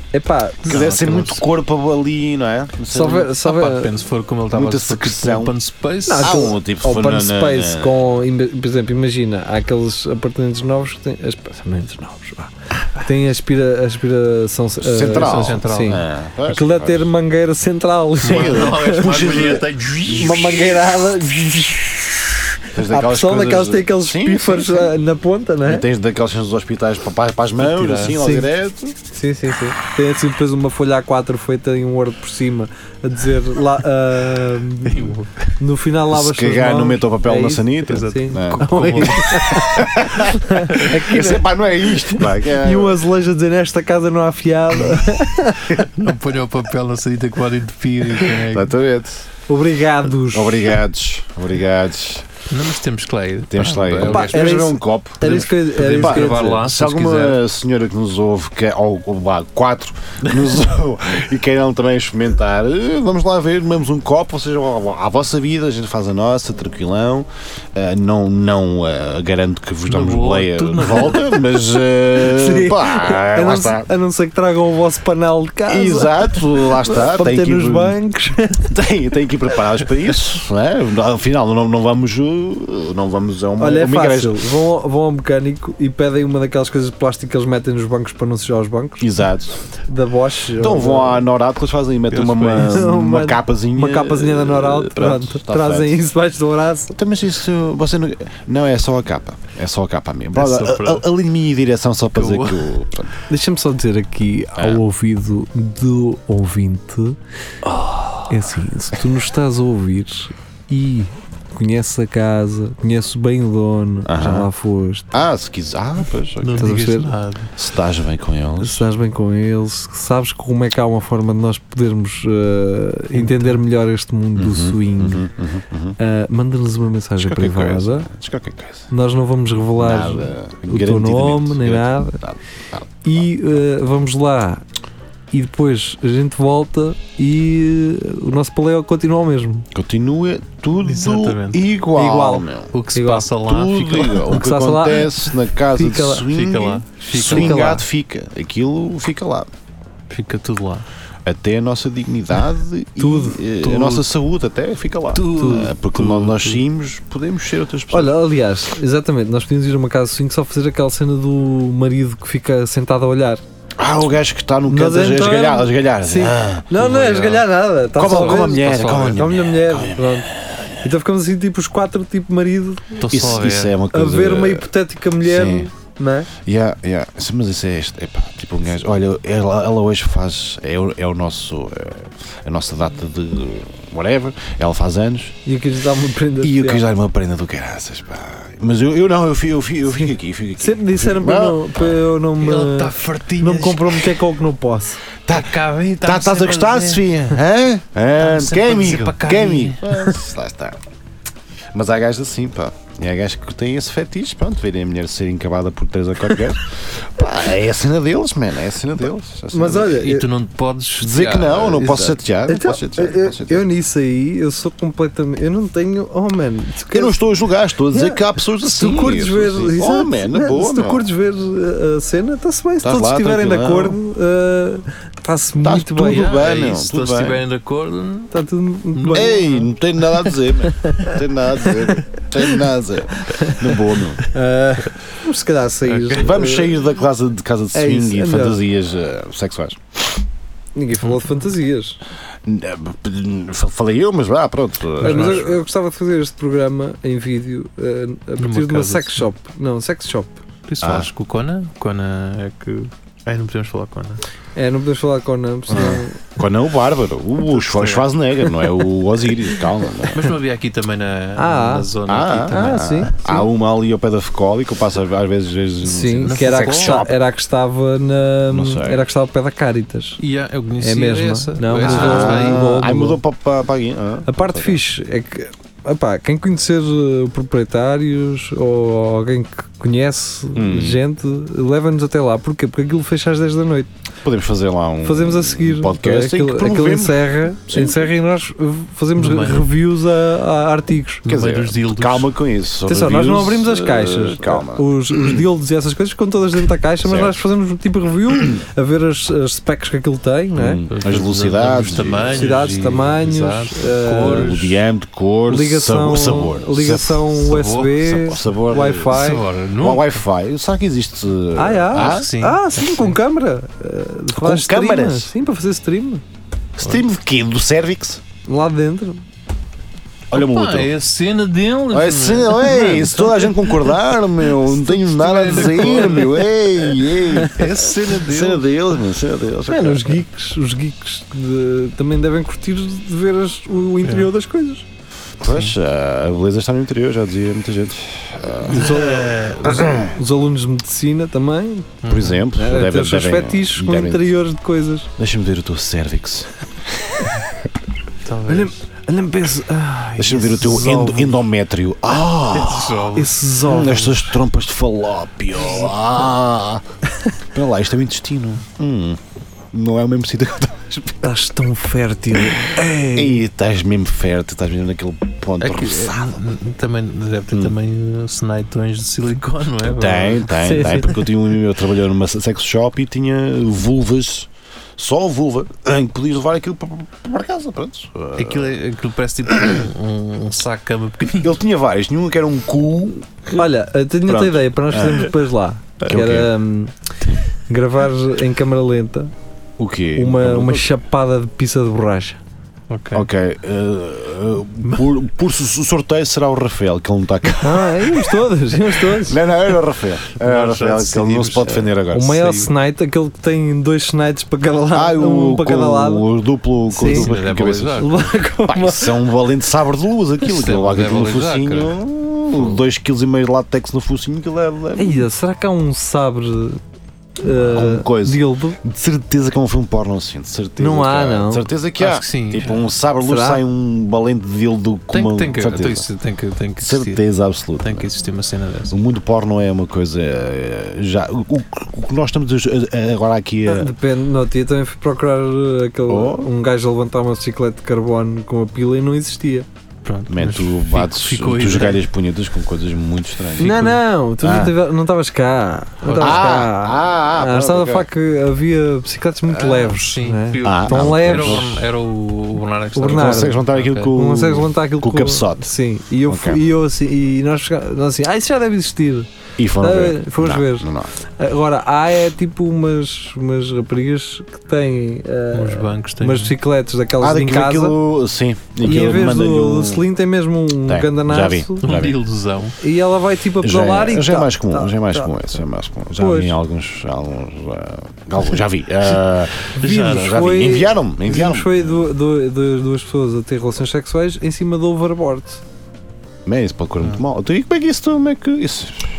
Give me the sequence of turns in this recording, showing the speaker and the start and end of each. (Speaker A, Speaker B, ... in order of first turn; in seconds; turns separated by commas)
Speaker A: 0.1-0.9, Speaker B: 0.7-3.3, Speaker C: 0.7-1.4, Speaker A: 2.9-3.9, Speaker C: 3.2-6.4, Speaker B: 4.5-5.5, Speaker A: 6.1-19.5, Speaker B: 6.2-8.0, Speaker B: 14.8-17.1, Speaker C: 15.1-16.0, Speaker C: 18.2-20.7, Speaker B: 18.2-20.3, Speaker A: 20.1-25.9, Speaker B: 22.7-24.9, Speaker B: 25.6-29.0, Speaker C: 27.6-28.2, Speaker A: 28.1-28.5, Speaker A: 29.1-45.9, Speaker C: 34.9-35.3, Speaker B: 36.1-43.0, Speaker C: 37.9-39.6, Speaker C: 45.9-48.7, Speaker B: 48.5-49.3, Speaker A: 49.5-50.7, Speaker B: 50.3-52.3, Speaker C: 52.5-54.4, Speaker B: 53.5-73.9, Speaker A: 54.1-56.7, Speaker C: 55.2-57.4, Speaker C: 69.9-71.3, Speaker A: 72.1-78.7, Speaker B: 75.7-78.0, Speaker B: 78.6-84.5, Speaker A: 83.6-89.0, Speaker B: 89.0-89.6, Speaker A: 89.9-91.3, Speaker B: 90.6-96.0, Speaker C: 92.1-92.9, Speaker A: 92.6-97.0, Speaker B: 97.0-103.1, Speaker C: 100.3-101.1, Speaker C: 102.1-102.7, Speaker A: 103.3-107.2, Speaker B: 104.6-104.8, Speaker A: 108.3-115.1, Speaker B: 114.1-114.5, Speaker B: 115.1-116.7, Speaker C: 116.4-117.5, Speaker A: 116.6-117.1, Speaker B: 117.6-118.8, Speaker A: 118.6-125.3, Speaker C: 123.2-123.6, Speaker B: 124.4-126.0, Speaker A: 126.0-128.1, Speaker B: 127.2-128.9, Speaker A: 128.9-132.2, Speaker B: 129.8-133.2, Speaker A: 133.0-134.6, Speaker A: 135.3-139.7, Speaker B: 139.7-142.8, Speaker C: 140.8-141.7, Speaker A: 141.9-143.3, Speaker C: 142.7-144.3, Speaker B: 143.4-149.5, Speaker A: 144.3-146.3, Speaker C: 146.3-147.8, Speaker A: 147.1-147.8, Speaker C: 150.1-150.9, Speaker B: 151.2-158.2, Speaker A: 153.0-153.4, Speaker C: 153.6-154.1, Speaker C: 155.1-156.6, Speaker A: 155.4-155.7, Speaker A: 157.9-163.4, Speaker B: 163.8-166.7, Speaker A: 164.7-173.0, Speaker C: 166.7-169.3, Speaker B: 167.9-170.8, Speaker C: 173.0-173.8, Speaker B: 173.1-174.7, Speaker A: 173.9-176.3, Speaker B: 175.2-175.7, Speaker B: 176.4-185.4, Speaker A: 185.4-186.8, Speaker B: 186.4-192.0, Speaker A: 190.6-195.0, Speaker C: 192.4-194.2, Speaker B: 195.3-200.8, Speaker C: 195.3-197.2, Speaker C: 198.2-200.2, Speaker B: 201.7-210.0, Speaker A: 209.5-210.3, Speaker C: 209.9-212.2, Speaker B: 211.0-213.7, Speaker A: 212.5-217.2, Speaker B: 216.9-221.0, Speaker A: 217.9-226.3, Speaker B: 222.8-224.0, Speaker B: 225.6-227.4, Speaker C: 226.0-228.3, Speaker A: 228.3-229.4, Speaker C: 228.9-229.7, Speaker B: 229.1-234.2, Speaker A: 234.3-236.7, Speaker C: 235.9-236.2, Speaker B: 236.2-240.2, Speaker A: 237.7-238.6, Speaker A: 240.8-242.0, Speaker B: 242.4-245.6, Speaker C: 245.0-245.5, Speaker A: 245.0-250.4, Speaker C: 248.4-249.2, Speaker C: 250.7-254.2, Speaker B: 250.8-251.1, Speaker A: 254.6-256.3, Speaker B: 255.7-260.3, Speaker C: 257.5-258.1, Speaker C: 260.1-263.3, Speaker A: 261.4-261.9, Speaker B: 262.1-267.2, Speaker A: 262.5-263.4, Speaker A: 265.8-270.2, Speaker C: 266.2-267.1, Speaker B: 268.5-269.0, Speaker C: 270.2-272.8, Speaker A: 270.8-273.2, Speaker B: 271.8-274.8, Speaker A: 274.3-283.9, Speaker B: 280.6-281.0, Speaker B: 284.2-288.1, Speaker A: 285.0-291.3, Speaker C: 289.2-289.7, Speaker C: 291.3-292.3, Speaker B: 291.3-295.4, Speaker A: 292.9-300.8, Speaker B: 297.0-297.4, Speaker B: 300.6-302.6, Speaker C: 300.9-304.7, Speaker A: 302.3-304.7, Speaker B: 304.2-307.3, Speaker A: 305.5-309.4, Speaker C: 307.4-310.2, Speaker B: 308.1-309.2, Speaker B: 309.8-312.3, Speaker A: 311.6-316.2, Speaker C: 311.9-313.2, Speaker B: 314.3-315.3, Speaker B: 316.8-318.2, Speaker A: 318.5-319.2, Speaker B: 320.3-320.9, Speaker C: 320.3-323.3, Speaker B: 321.9-330.2, Speaker A: 322.7-323.3, Speaker C: 324.7-326.5, Speaker A: 325.7-326.2, Speaker C: 327.4-328.7, Speaker A: 329.7-334.9, Speaker C: 334.0-334.3, Speaker B: 335.4-339.1, Speaker A: 338.7-342.0, Speaker C: 338.7-339.9, Speaker B: 339.6-340.1, Speaker C: 342.0-342.4, Speaker B: 342.1-344.3, Speaker A: 342.5-345.1, Speaker B: 345.2-347.4, Speaker C: 348.2-348.7, Speaker A: 348.5-351.4, Speaker B: 350.2-353.1, Speaker C: 352.4-353.4, Speaker A: 353.1-354.3, Speaker B: 353.6-356.8, Speaker B: 357.5-359.2, Speaker B: 359.7-361.3, Speaker A: 361.2-363.4, Speaker B: 362.5-366.4, Speaker C: 365.6-371.0, Speaker B: 369.8-378.8, Speaker A: 370.6-371.1, Speaker C: 378.4-381.5, Speaker B: 379.5-379.8, Speaker B: 381.4-383.5, Speaker A: 383.5-386.9, Speaker B: 384.3-385.3, Speaker B: 386.0-386.5, Speaker A: 387.7-389.3, Speaker B: 389.8-390.9, Speaker A: 390.1-392.4, Speaker C: 392.9-393.3, Speaker B: 393.1-398.3, Speaker A: 397.6-399.4, Speaker B: 399.1-402.5, Speaker C: 400.4-401.9, Speaker A: 402.1-406.2, Speaker C: 402.4-402.7, Speaker B: 404.9-408.1, Speaker A: 406.9-407.3, Speaker C: 407.0-408.2, Speaker A: 408.0-409.2, Speaker B: 408.7-415.3, Speaker C: 410.4-412.0, Speaker C: 412.5-412.8, Speaker A: 415.0-416.8, Speaker A: 417.4-418.8, Speaker B: 417.5-426.1, Speaker A: 420.8-421.7, Speaker C: 422.0-422.8, Speaker A: 423.2-423.6, Speaker C: 425.1-427.2, Speaker B: 426.8-428.1, Speaker C: 427.8-429.0, Speaker B: 428.9-433.9, Speaker A: 433.7-439.7, Speaker B: 436.1-436.5, Speaker C: 440.0-442.0, Speaker B: 440.3-444.8, Speaker C: 443.6-444.0, Speaker A: 443.6-451.6, Speaker C: 446.0-446.6, Speaker B: 446.2-448.1, Speaker C: 449.7-454.1, Speaker B: 450.6-451.8, Speaker A: 453.0-459.3, Speaker B: 453.1-455.7, Speaker B: 456.3-456.6, Speaker B: 459.6-461.1, Speaker A: 459.8-468.0, Speaker C: 465.5-466.6, Speaker B: 467.2-470.1, Speaker A: 468.8-471.9, Speaker B: 470.9-472.2, Speaker C: 471.8-472.8, Speaker A: 472.8-475.3, Speaker B: 473.6-482.0, Speaker A: 476.2-476.6, Speaker C: 479.8-480.4, Speaker A: 479.8-485.6, Speaker B: 486.4-489.1